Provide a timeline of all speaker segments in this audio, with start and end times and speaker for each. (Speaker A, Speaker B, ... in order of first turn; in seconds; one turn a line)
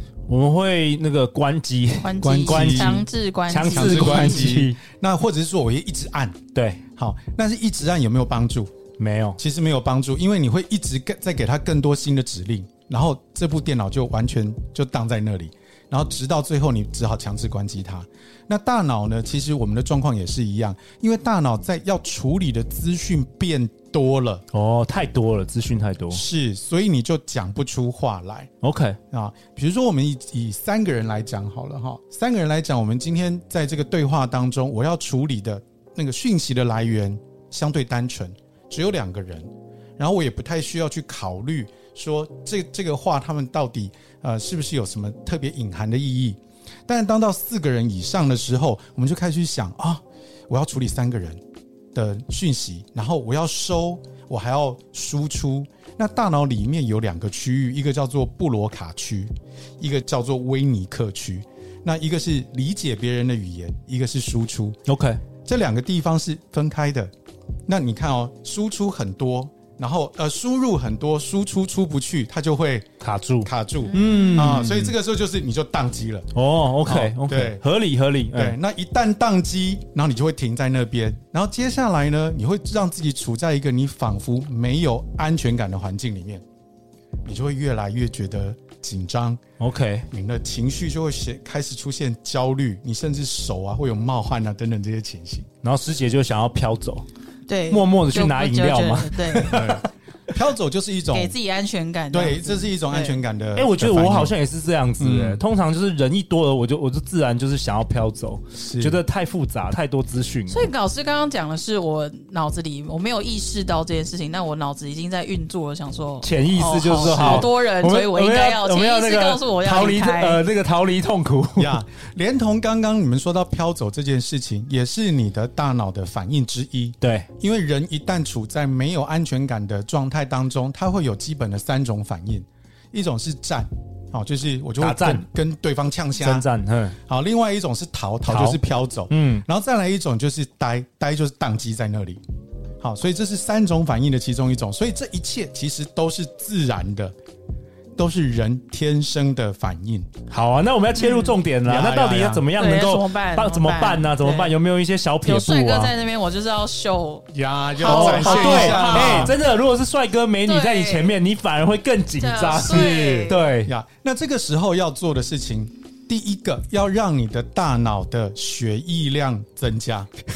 Speaker A: 0.3-4.8
Speaker B: 2.0-4.6
Speaker C: 2.2-3.0
Speaker C: 3.6-6.4
Speaker A: 6.5-6.8
Speaker C: 7.0-8.7
Speaker A: 9.0-9.4
Speaker C: 9.4-24.4
Speaker A: 24.5-26.2
Speaker C: 26.1-28.5
Speaker A: 28.6-29.0
Speaker C: 29.1-51.4
Speaker C: 51.9-64.8
Speaker A: 64.9-65.2
Speaker C: 65.4-67.1
Speaker C: 67.7-72.9
Speaker A: 73.0-74.9
Speaker C: 73.4-76.3
Speaker B: 74.0-74.5
Speaker A: 76.3-78.6
Speaker C: 76.8-77.6
Speaker C: 78.3-86.4
Speaker C: 87.2-89.4
Speaker A: 89.6-90.1
Speaker C: 90.1-95.5
Speaker A: 95.6-97.0
Speaker B: 97.5-99.7
Speaker A: 97.7-99.9
Speaker C: 99.5-101.3
Speaker B: 101.1-103.2
Speaker C: 102.1-104.3
Speaker A: 103.5-110.7
Speaker C: 105.0-105.4
Speaker C: 108.5-109.0
Speaker B: 110.5-120.4
Speaker A: 116.2-121.8
Speaker C: 117.0-117.5
Speaker C: 121.6-136.5
Speaker A: 127.0-127.3
Speaker A: 134.8-135.2
Speaker A: 136.2-137.0
Speaker C: 137.1-142.2
Speaker A: 138.3-139.4
Speaker C: 142.8-147.1
Speaker C: 147.9-150.1
Speaker A: 150.3-155.9
Speaker B: 150.9-151.4
Speaker C: 151.6-152.4
Speaker B: 152.5-154.6
Speaker B: 155.2-159.3
Speaker C: 157.3-159.3
Speaker A: 157.9-163.7
Speaker B: 160.4-161.2
Speaker B: 162.2-163.5
Speaker C: 162.5-170.1